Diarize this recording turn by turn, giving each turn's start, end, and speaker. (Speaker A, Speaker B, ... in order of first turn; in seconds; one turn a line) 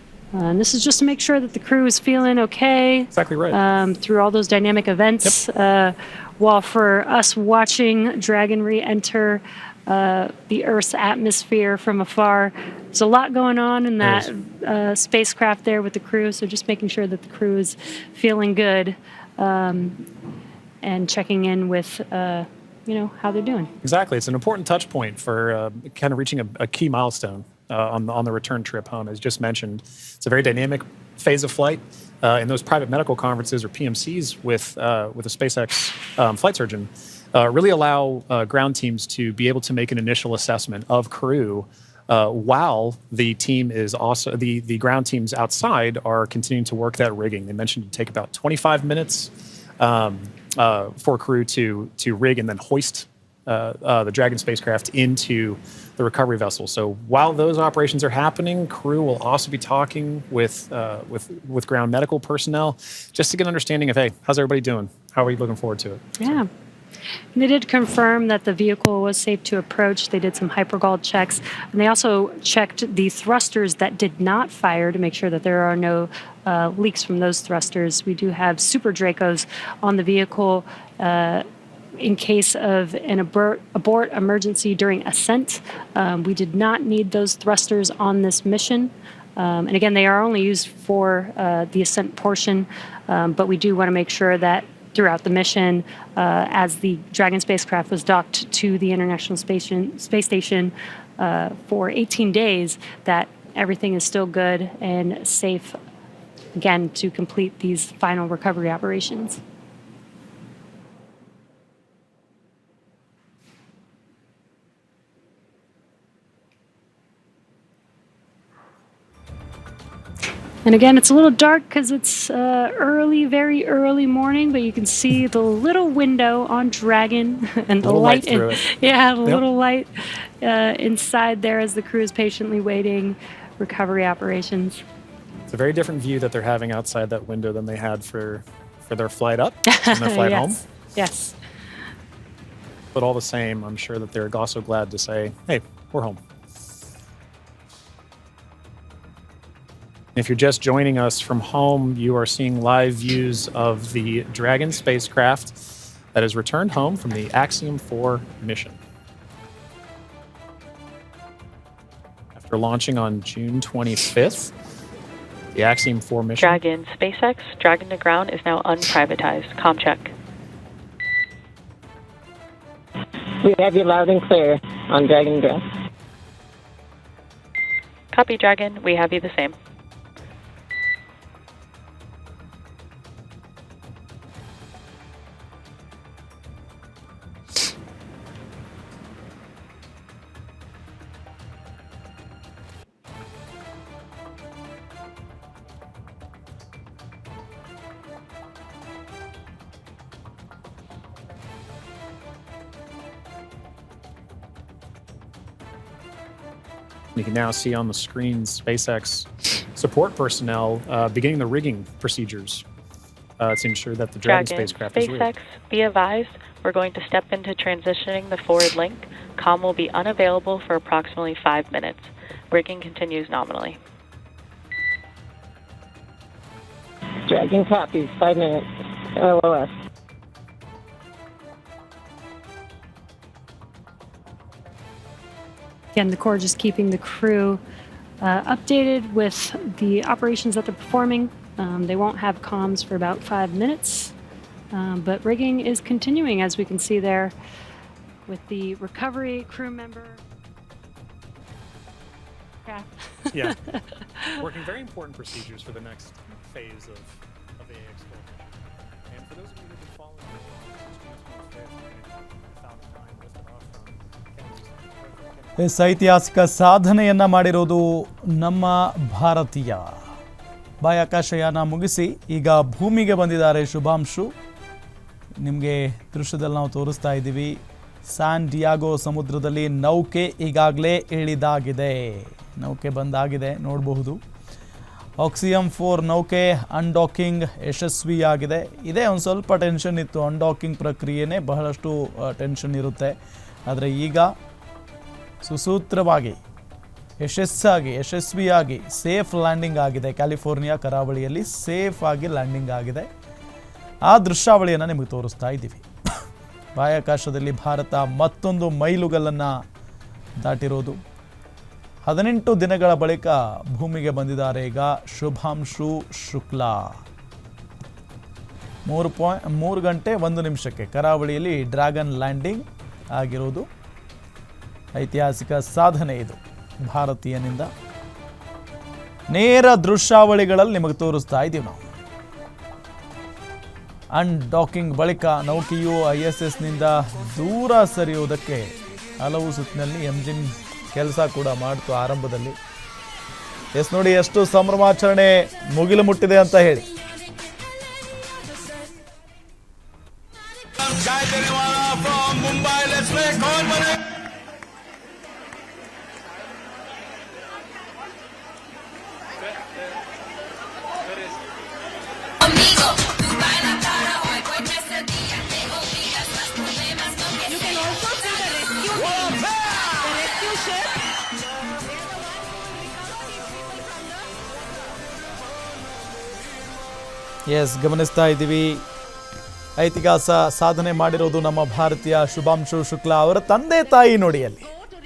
Speaker A: 0.3-20.0
Speaker B: 3.1-3.6
Speaker B: 14.0-14.3
Speaker A: 20.8-23.7
Speaker B: 23.8-66.4
Speaker A: 66.2-66.5
Speaker A: 67.3-81.5
Speaker A: 82.0-105.8
Speaker A: 106.6-109.4
Speaker A: 120.7-134.8
Speaker B: 127.8-128.7
Speaker B: 135.5-140.6
Speaker A: 139.7-141.4
Speaker B: 142.9-146.2
Speaker B: 150.2-155.6
Speaker B: 156.1-158.8
Speaker B: 162.4-164.5
Speaker B: 165.6-166.6
Speaker C: 166.4-170.1
Speaker D: 173.4-175.6
Speaker C: 178.1-179.6
Speaker B: 207.2-212.6
Speaker B: 213.4-215.3
Speaker C: 214.2-223.8
Speaker D: 227.3-229.7
Speaker A: 235.9-237.6
Speaker A: 238.2-244.2
Speaker A: 244.7-247.3
Speaker A: 248.3-250.2
Speaker A: 252.7-254.4
Speaker B: 253.3-253.6
Speaker B: 254.3-258.6
Speaker B: 259.1-265.7
Speaker E: 265.6-270.0
Speaker E: 270.8-274.3
Speaker E: 275.4-284.2
Speaker E: 285.2-293.1
Speaker E: 293.7-294.3
Speaker E: 295.4-296.4
Speaker E: 297.2-303.1
Speaker E: 304.1-305.9
Speaker E: 306.8-309.5
Speaker E: 310.4-311.0
Speaker E: 312.1-317.0
Speaker E: 318.9-323.7
Speaker E: 325.0-327.7
Speaker E: 329.3-331.8
Speaker E: 334.1-342.6
Speaker E: 343.8-346.9
Speaker E: 377.5-378.8
Speaker E: 379.8-384.7